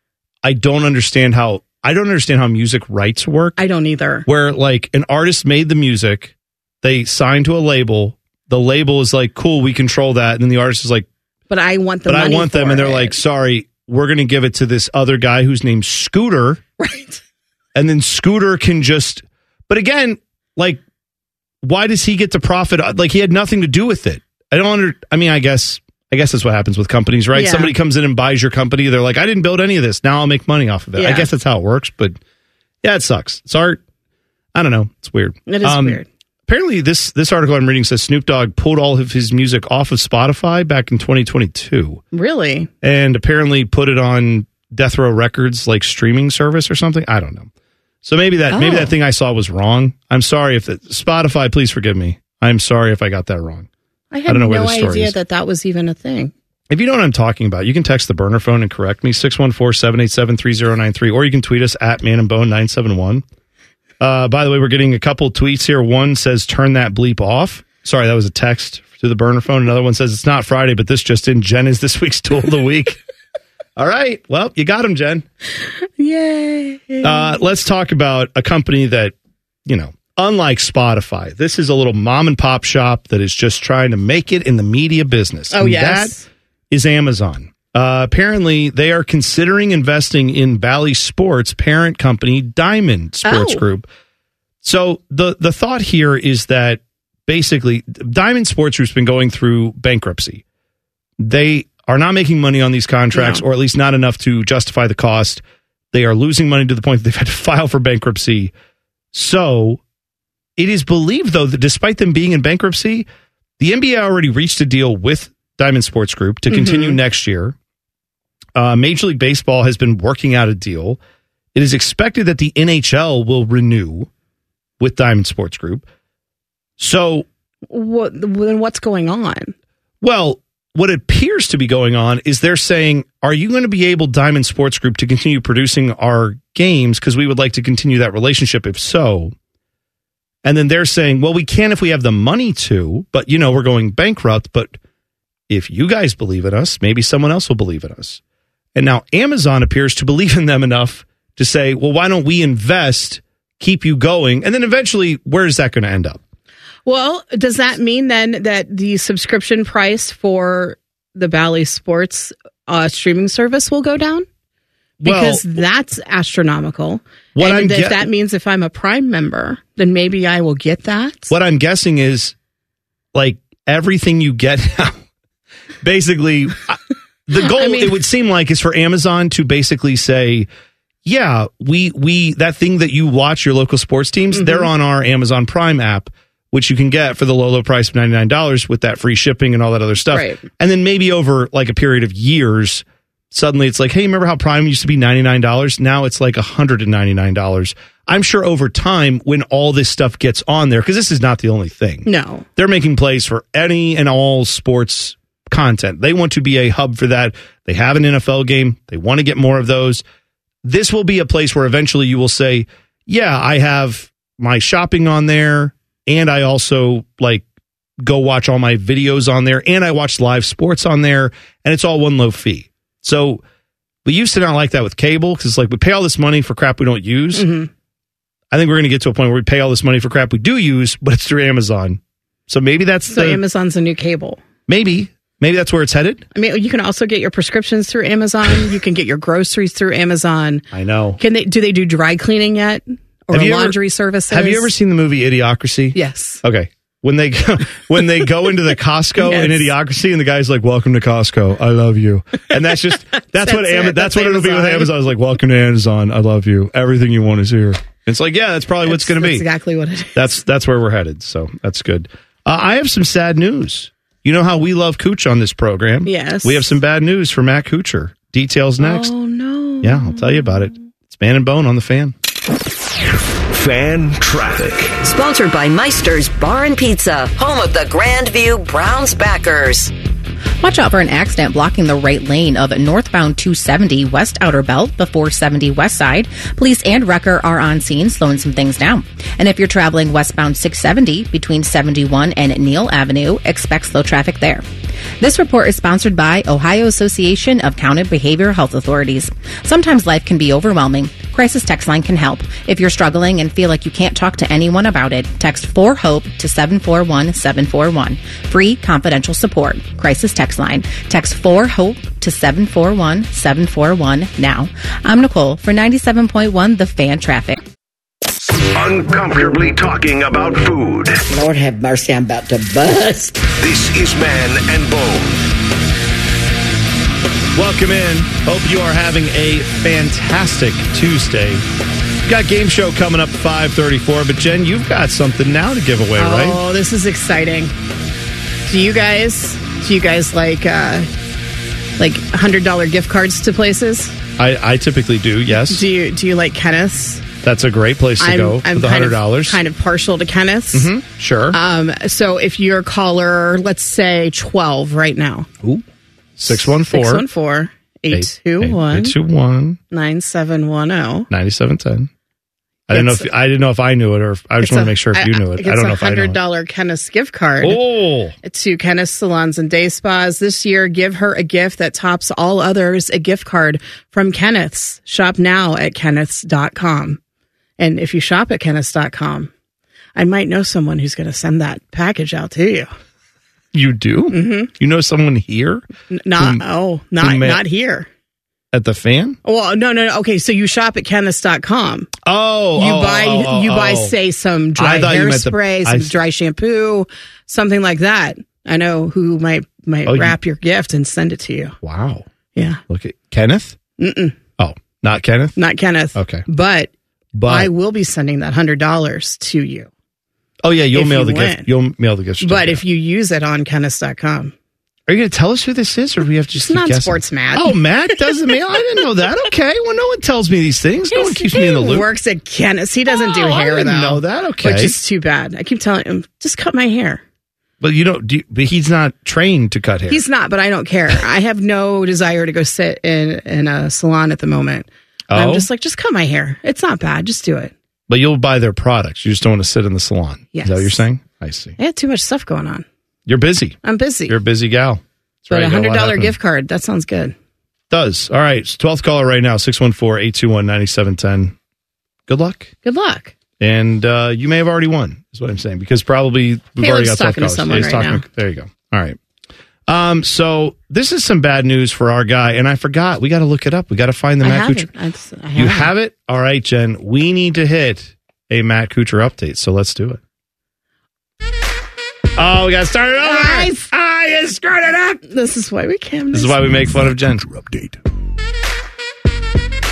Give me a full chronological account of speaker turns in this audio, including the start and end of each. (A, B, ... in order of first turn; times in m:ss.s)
0:00.4-0:03.6 A
0:03.6-0:04.3 B
0:04.2-0:11.1 A
0:11.5-0:13.2 B
0:12.1-0:16.6 A
0:16.8-0:17.2 B
0:17.7-0:20.8 A
0:21.6-0:32.2 A
0:27.3-0:27.7 B
0:31.0-0:31.3 B
0:32.8-0:33.8 A
0:34.5-0:42.0 A
0:35.5-0:36.1 B
0:42.1-0:42.7 B
0:42.8-0:47.5 A
0:48.0-0:53.7 A
0:48.5-0:48.9 B
0:54.1-0:56.3 B
0:54.3-0:55.1 A
0:56.7-1:03.2 A
1:04.0-1:13.0 A
1:13.8-1:15.2 A
1:16.0-1:17.4 B
1:17.0-1:19.1 A
1:19.6-1:26.2 A
1:25.5-1:26.2 B
1:26.7-1:33.9 A
1:33.2-1:33.6 B
1:34.6-1:40.4 A
1:41.2-1:48.5 A
1:43.1-1:43.4 B
1:49.1-1:49.8 A
1:50.6-1:53.1 A
1:53.6-1:57.5 A
1:56.5-1:57.0 B
1:58.5-2:01.0 A
2:01.5-2:04.1 A
2:04.8-2:05.8 A
2:06.8-2:07.2 A
2:07.7-2:09.5 B
2:10.0-2:19.3 A
2:20.4-2:24.8 A
2:25.5-2:28.2 A
2:28.7-2:36.2 A
2:36.8-2:44.2 B
2:45.0-2:45.4 A
2:45.0-2:51.3 B
2:47.3-2:48.1 A
2:51.3-2:52.3 A
2:53.1-2:55.0 A
2:55.8-3:00.5 A
2:57.4-2:58.0 B
3:01.0-3:30.0 A
3:04.3-3:04.7 B
3:10.1-3:10.4 B
3:22.0-3:22.4 B
3:30.6-3:37.4 A
3:38.0-3:43.4 A
3:44.0-3:47.5 A
3:47.3-3:47.7 B
3:48.5-3:53.4 A
3:53.1-3:54.4 B
3:54.7-3:56.2 A
3:56.3-4:00.6 B
4:00.7-4:01.2 A
4:01.2-4:04.7 B
4:03.3-4:03.8 A
4:04.3-4:19.4 A
4:05.9-4:06.4 B
4:09.2-4:09.7 B
4:13.2-4:14.9 B
4:18.8-4:20.3 B
4:20.1-4:29.1 A
4:26.0-4:26.7 B
4:28.8-4:30.7 B
4:29.8-4:32.1 A
4:33.5-4:35.0 C
4:35.0-4:39.9 D
4:40.6-4:54.6 E
4:55.2-5:17.6 E
5:18.7-5:21.2 C
5:21.3-5:23.4 F
5:23.6-5:25.4 C
5:27.5-5:31.6 A
5:32.2-5:36.6 A
5:36.2-5:37.7 B
5:38.7-5:41.1 B
5:42.0-5:44.2 B
5:44.4-5:45.8 A
5:45.7-5:47.2 B
5:47.4-5:49.6 A
5:48.2-5:50.9 B
5:50.7-5:51.6 A
5:51.5-5:55.5 B
5:56.4-5:57.2 A
5:56.5-5:59.1 B
5:58.1-5:59.8 A
5:59.9-6:01.3 B
6:01.3-6:02.1 A
6:02.9-6:06.4 A
6:02.9-6:03.3 B
6:04.6-6:07.8 B
6:07.6-6:08.4 A
6:08.4-6:17.2 B
6:17.8-6:19.5 B
6:20.2-6:22.9 B
6:23.7-6:25.8 A
6:24.3-6:24.7 B
6:26.1-6:28.1 B
6:26.4-6:26.6 A
6:27.2-6:27.6 A
6:28.7-6:29.4 A
6:29.4-6:32.1 B
6:32.2-6:34.1 A
6:32.8-6:41.8 B
6:34.8-6:36.1 A
6:40.0-6:40.3 A
6:41.8-6:42.3 A
6:42.5-6:42.8 B
6:42.9-6:43.8 A
6:44.0-6:44.4 B
6:44.6-6:45.6 A
6:45.6-6:46.9 B
6:46.1-6:46.4 A
6:47.3-6:47.7 A
6:47.4-6:49.9 B
6:50.6-6:52.8 A
6:50.9-6:51.7 B
6:52.4-6:54.5 B
6:55.1-7:02.1 A
6:56.6-6:57.8 B
7:01.1-7:07.2 B
7:03.1-7:05.0 A
7:07.8-7:10.2 A
7:10.1-7:17.7 B
7:15.3-7:15.7 A
7:18.1-7:21.8 A
7:20.5-7:21.0 B
7:21.8-7:22.8 B
7:23.3-7:26.3 A
7:23.8-7:24.4 B
7:25.5-7:27.3 B
7:27.9-7:31.5 A
7:32.3-7:32.7 A
7:32.8-7:33.3 B
7:33.6-7:39.2 A
7:36.8-7:38.2 B
7:39.9-7:44.9 A
7:44.4-7:45.9 B
7:45.5-7:50.2 A
7:52.4-7:55.2 A
7:53.2-7:53.8 B
7:55.2-7:56.9 B
7:56.3-7:58.0 A